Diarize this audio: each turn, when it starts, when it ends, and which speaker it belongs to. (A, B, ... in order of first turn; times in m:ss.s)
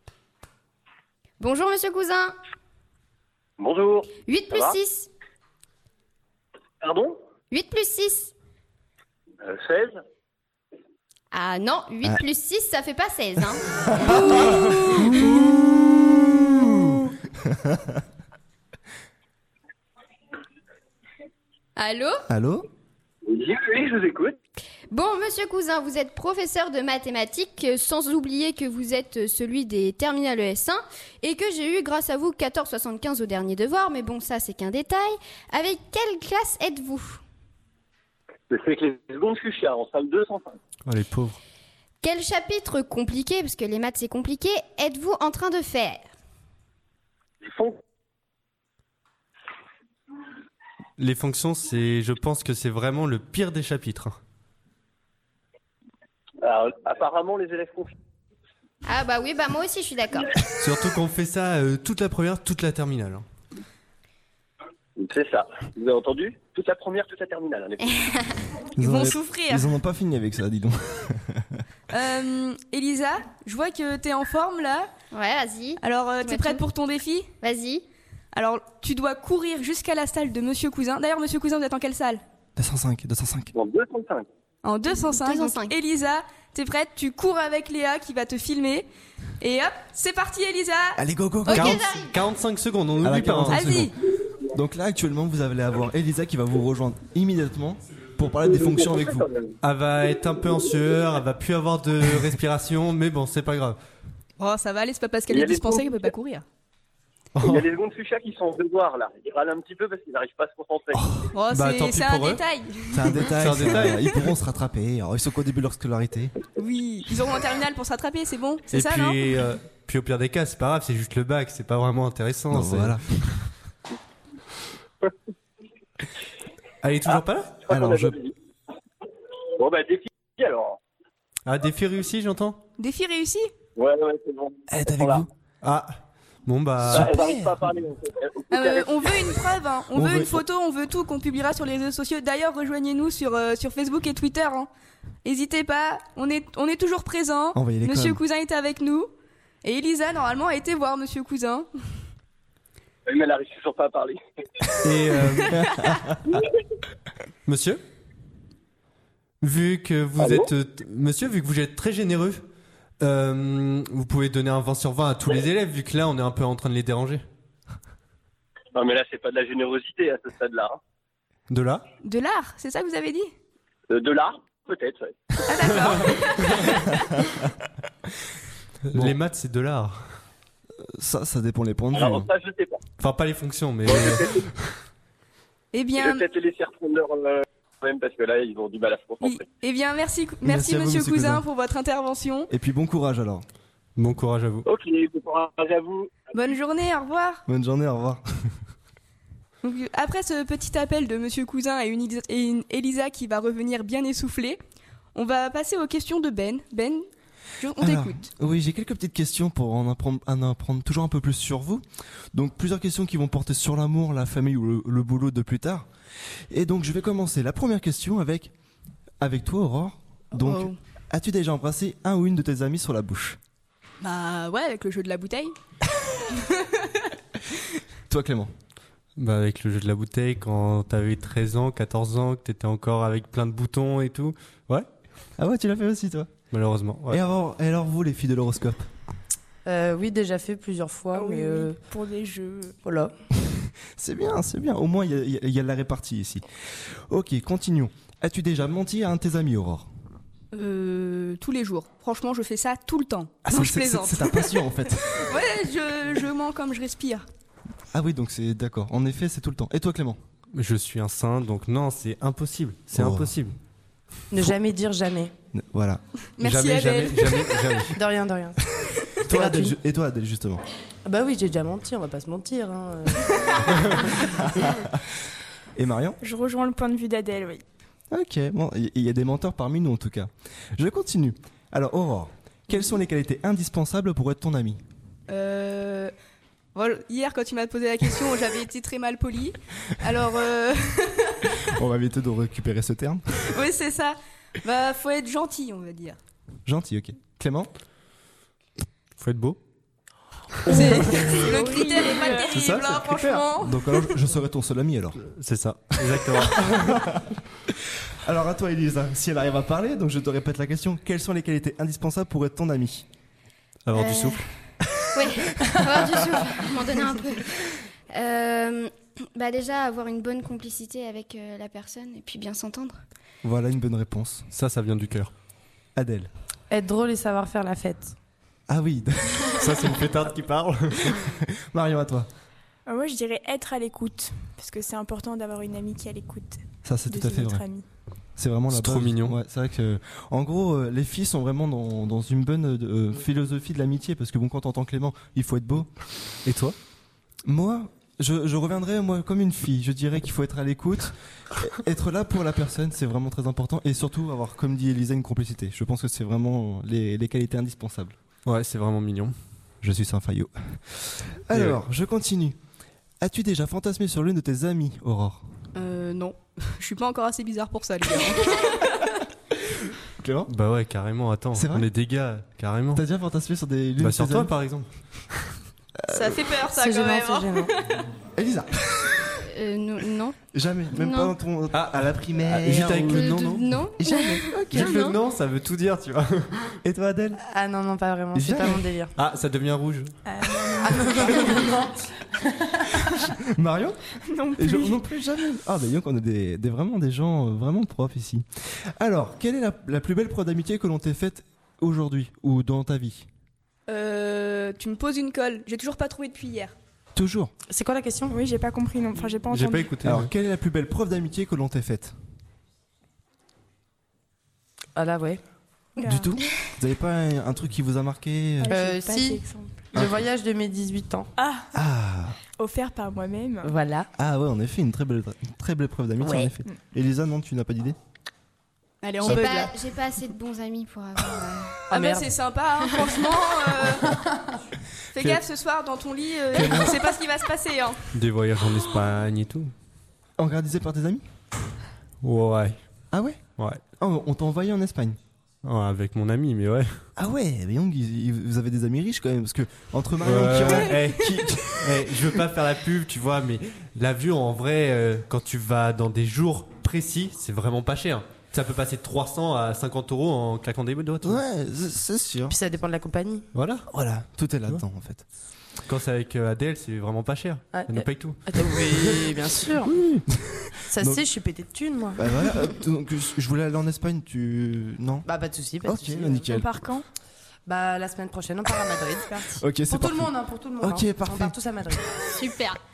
0:01.4-0:02.4 A
0:03.6-0:04.8 B
0:04.2-0:05.1 A
0:06.8-0:07.2 B
0:07.5-0:08.3 A
0:09.4-0:10.0 B
0:11.3-0:15.1 A
0:14.1-0:15.1 C
0:14.1-0:18.0 D
0:21.8-0:22.2 A
0:22.3-0:22.7 D
0:23.3-0:24.4 B
0:24.9-0:37.2 A
0:38.5-0:40.6 B
0:40.8-0:41.4 E
0:42.0-0:46.1 A
0:47.4-0:47.8 B
0:51.0-0:54.2 E
0:56.4-0:57.9 B
0:58.8-1:00.4 A
1:00.6-1:03.2 E
1:05.0-1:08.0 B
1:08.0-1:08.3 A
1:08.8-1:11.6 D
1:08.8-1:09.7 C
1:11.9-1:14.9 C
1:15.1-1:16.6 A
1:15.8-1:17.3 C
1:17.4-1:17.8 A
1:18.3-1:22.2 C
1:22.6-1:23.5 D
1:23.5-1:24.3 B
1:24.6-1:28.9 C
1:25.0-1:25.7 A
1:29.4-1:31.0 C
1:31.0-1:31.9 D
1:31.4-1:32.2 A
1:31.5-1:33.9 E
1:33.0-1:33.9 D
1:33.5-1:33.9 C
1:34.5-1:39.2 D
1:38.6-1:39.5 B
1:39.6-1:43.8 E
1:44.4-1:46.4 C
1:45.3-1:46.1 B
1:47.4-1:51.2 B
1:50.9-1:51.2 D
1:51.3-1:53.2 C
1:51.5-1:52.4 E
1:52.9-1:56.3 D
1:53.2-1:54.1 E
1:56.6-1:59.2 C
1:58.7-2:03.0 E
2:02.5-2:03.3 D
2:06.8-2:07.6 E
2:07.1-2:08.3 B
2:07.7-2:08.2 D
2:09.6-2:10.8 B
2:11.4-2:12.6 E
2:12.8-2:13.5 C
2:13.8-2:15.3 B
2:14.7-2:15.3 D
2:15.6-2:17.2 E
2:16.8-2:17.7 D
2:16.9-2:19.1 B
2:18.5-2:24.7 C
2:19.9-2:20.4 D
2:25.2-2:29.1 C
2:27.5-2:28.2 D
2:29.6-2:31.7 C
2:33.1-2:34.2 B
2:34.8-2:35.6 E
2:35.1-2:36.1 C
2:35.5-2:36.2 D
2:37.4-2:37.8 E
2:39.4-2:42.4 E
2:40.2-2:40.5 B
2:43.0-2:47.2 E
2:48.7-2:50.8 B
2:51.5-2:51.8 E
2:52.0-2:53.3 C
2:53.9-2:55.1 B
2:55.5-2:57.0 C
2:58.8-3:00.2 E
3:00.9-3:02.3 D
3:01.9-3:02.8 B
3:03.0-3:04.5 E
3:03.8-3:04.5 B
3:05.7-3:06.2 C
3:06.0-3:09.4 B
3:09.2-3:12.5 C
3:10.4-3:11.4 D
3:12.5-3:13.4 D
3:14.0-3:14.6 E
3:14.6-3:16.1 B
3:16.3-3:17.4 C
3:17.5-3:18.2 D
3:19.6-3:24.6 C
3:25.1-3:27.1 C
3:27.6-3:28.3 C
3:27.8-3:35.8 D
3:36.5-3:38.5 D
3:39.2-3:43.4 D
3:40.4-3:40.8 C
3:44.0-3:45.5 C
3:46.3-3:47.0 C
3:48.1-3:48.5 D
3:49.2-3:54.8 E
3:55.4-3:56.3 D
3:56.5-3:57.2 E
3:57.1-3:58.9 D
3:59.6-4:01.8 F
4:01.1-4:02.8 G
4:02.8-4:03.1 F
4:03.5-4:09.9 D
4:10.5-4:17.2 C
4:13.4-4:15.2 D
4:17.9-4:20.2 D
4:20.5-4:23.6 E
4:22.9-4:23.3 D
4:24.3-4:25.3 F
4:25.5-4:26.0 D
4:26.4-4:27.4 C
4:26.4-4:28.0 E
4:27.9-4:28.6 F
4:29.2-4:30.6 D
4:29.3-4:29.8 F
4:31.0-4:34.4 F
4:34.2-4:35.0 D
4:35.7-4:36.2 D
4:36.2-4:37.6 G
4:38.1-4:44.8 D
4:45.3-4:46.1 C
4:46.7-4:51.6 C
4:51.7-4:53.2 D
4:53.5-4:56.2 C
4:56.6-4:57.7 D
4:59.2-4:59.6 E
5:00.6-5:04.0 C
5:00.9-5:02.5 G
5:02.5-5:03.4 E
5:03.6-5:05.2 D
5:05.2-5:06.6 E
5:06.0-5:13.0 D
5:13.8-5:14.4 E
5:13.9-5:14.4 A
5:15.1-5:23.0 A
5:23.4-5:24.4 D
5:24.5-5:25.3 E
5:26.0-5:26.3 D
5:26.7-5:28.1 F
5:28.7-5:29.8 D
5:29.6-5:31.3 E
5:31.1-5:32.3 D
5:32.9-5:37.8 G
5:36.8-5:37.7 D
5:38.4-5:45.9 D
5:38.7-5:39.4 E
5:46.4-5:46.7 E
5:47.5-5:58.2 D
5:58.4-5:59.3 E
5:59.8-6:02.6 D
6:01.5-6:01.8 E
6:03.2-6:05.4 D
6:05.7-6:09.0 C
6:09.6-6:10.5 D
6:10.5-6:13.0 E
6:11.5-6:11.9 D
6:12.9-6:14.5 D
6:14.0-6:15.6 E
6:16.0-6:16.4 D
6:16.1-6:18.0 C
6:16.7-6:17.7 F
6:18.3-6:19.2 D
6:19.3-6:20.4 A
6:20.5-6:23.2 D
6:20.9-6:21.3 A
6:21.7-6:23.8 E
6:22.9-6:25.2 A
6:24.0-6:25.0 D
6:24.7-6:26.7 E
6:26.8-6:27.4 D
6:27.4-6:29.1 F
6:28.3-6:28.9 D
6:29.2-6:30.1 E
6:30.2-6:31.8 G
6:30.8-6:32.8 F
6:33.1-6:38.4 D
6:34.3-6:35.0 G
6:39.0-6:43.3 D
6:43.9-6:46.7 C
6:47.1-6:47.5 D
6:47.7-6:48.4 F
6:48.3-6:50.0 G
6:49.5-6:50.3 E
6:50.0-6:52.2 D
6:55.0-6:55.4 F
6:56.0-6:56.3 G
6:56.0-6:58.8 D
6:58.6-6:59.9 G
6:58.7-7:01.3 F
7:01.4-7:01.7 G
7:01.7-7:02.4 D
7:02.6-7:03.8 G
7:03.6-7:04.1 F
7:04.2-7:08.0 D
7:06.2-7:06.5 A
7:09.0-7:09.7 C
7:09.2-7:11.9 A
7:11.9-7:12.3 F
7:11.9-7:14.2 C
7:15.1-7:18.0 C
7:16.5-7:16.9 E
7:18.1-7:19.7 E
7:20.4-7:21.2 D
7:22.2-7:22.8 E
7:23.1-7:23.4 D
7:24.0-7:25.2 D
7:25.6-7:27.0 E
7:27.2-7:32.2 D
7:30.2-7:41.4 E
7:41.2-7:42.6 D
7:42.5-7:43.4 F
7:43.5-7:43.9 E
7:43.9-7:45.2 D
7:45.8-7:49.0 E
7:47.7-7:49.9 F
7:49.8-7:50.2 E
7:50.4-7:51.3 D
7:50.9-7:52.2 F
7:52.2-7:55.3 D
7:55.2-7:56.6 F
7:55.8-7:56.8 D
7:56.5-7:57.0 G
7:57.7-8:02.1 F
7:59.5-8:01.6 D
8:02.3-8:02.8 A